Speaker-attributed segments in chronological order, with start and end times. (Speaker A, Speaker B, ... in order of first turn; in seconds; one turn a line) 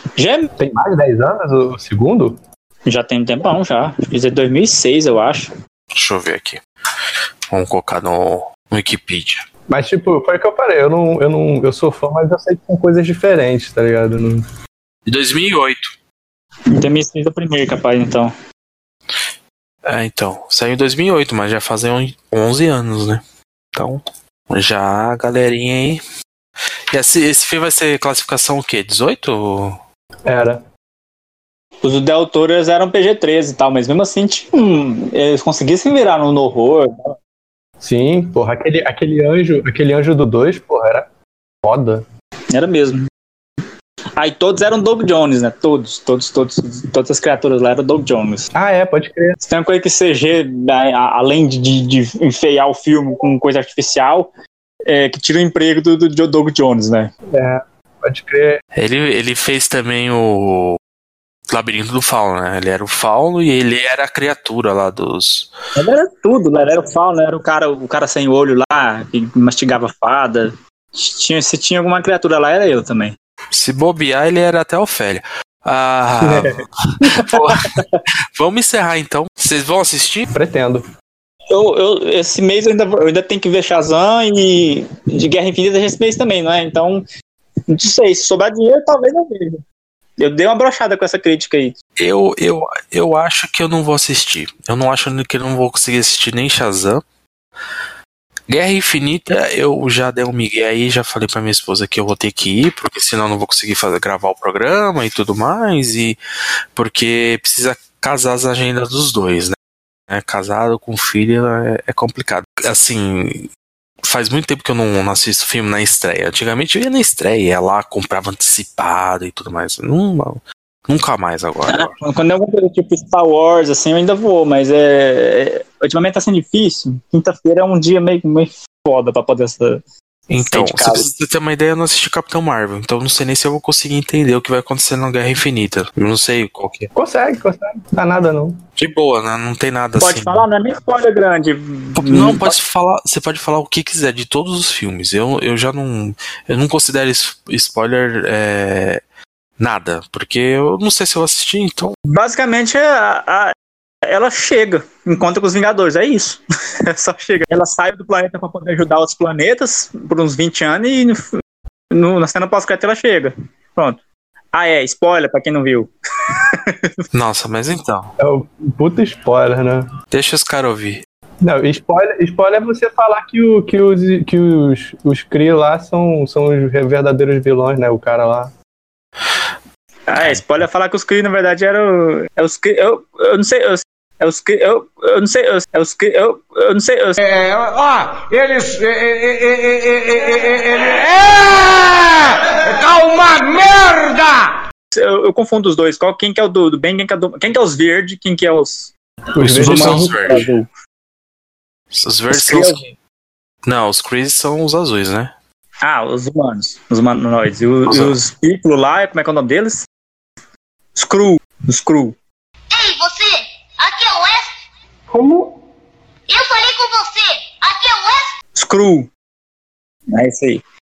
Speaker A: 0.2-0.5
Speaker B: 0.6-2.4
Speaker A: 2.9-5.5
Speaker C: 5.9-6.6
Speaker C: 7.5-9.4
Speaker B: 9.7-14.4
Speaker C: 15.1-15.9
Speaker A: 16.7-18.3
Speaker C: 19.9-23.2
Speaker C: 23.7-26.0
Speaker C: 26.9-29.8
Speaker B: 30.2-30.6
Speaker A: 31.8-37.1
Speaker B: 37.8-41.1
Speaker B: 41.6-42.0
Speaker A: 42.5-43.0
Speaker A: 44.2-48.5
Speaker B: 48.5-49.4
Speaker A: 49.4-54.3
Speaker A: 54.9-57.1
Speaker B: 57.3-58.6
Speaker C: 58.8-60.8
Speaker C: 61.5-65.5
Speaker A: 65.7-73.1
Speaker C: 73.5-76.6
Speaker A: 77.0-78.0
Speaker C: 77.1-77.6
Speaker C: 78.4-80.3
Speaker B: 80.3-80.8
Speaker A: 81.5-87.0
Speaker A: 87.7-89.6
Speaker A: 90.2-91.8
Speaker C: 92.0-97.0
Speaker C: 98.5-106.2
Speaker C: 106.7-109.5
Speaker C: 110.1-113.5
Speaker C: 114.0-122.0
Speaker A: 121.7-129.8
Speaker C: 130.3-136.9
Speaker A: 130.4-131.1
Speaker B: 136.9-138.6
Speaker C: 138.8-140.4
Speaker A: 140.0-142.6
Speaker C: 142.0-149.0
Speaker C: 149.6-151.9
Speaker A: 152.1-153.5
Speaker A: 154.1-161.4
Speaker A: 161.9-164.0
Speaker A: 164.5-166.9
Speaker C: 167.1-168.1
Speaker B: 168.2-169.8
Speaker C: 170.1-171.0
Speaker B: 171.4-178.5
Speaker A: 180.1-187.2
Speaker D: 187.2-194.6
Speaker A: 194.9-198.9
Speaker B: 199.4-200.5
Speaker C: 199.4-200.4
Speaker A: 199.5-200.7
Speaker C: 201.9-202.8
Speaker A: 202.3-202.9
Speaker C: 203.6-205.3
Speaker A: 205.8-209.8
Speaker C: 207.8-208.2
Speaker A: 210.9-212.1
Speaker E: 212.7-214.5
Speaker B: 215.1-215.5
Speaker E: 216.3-218.3
Speaker A: 218.6-219.1
Speaker A: 220.1-220.6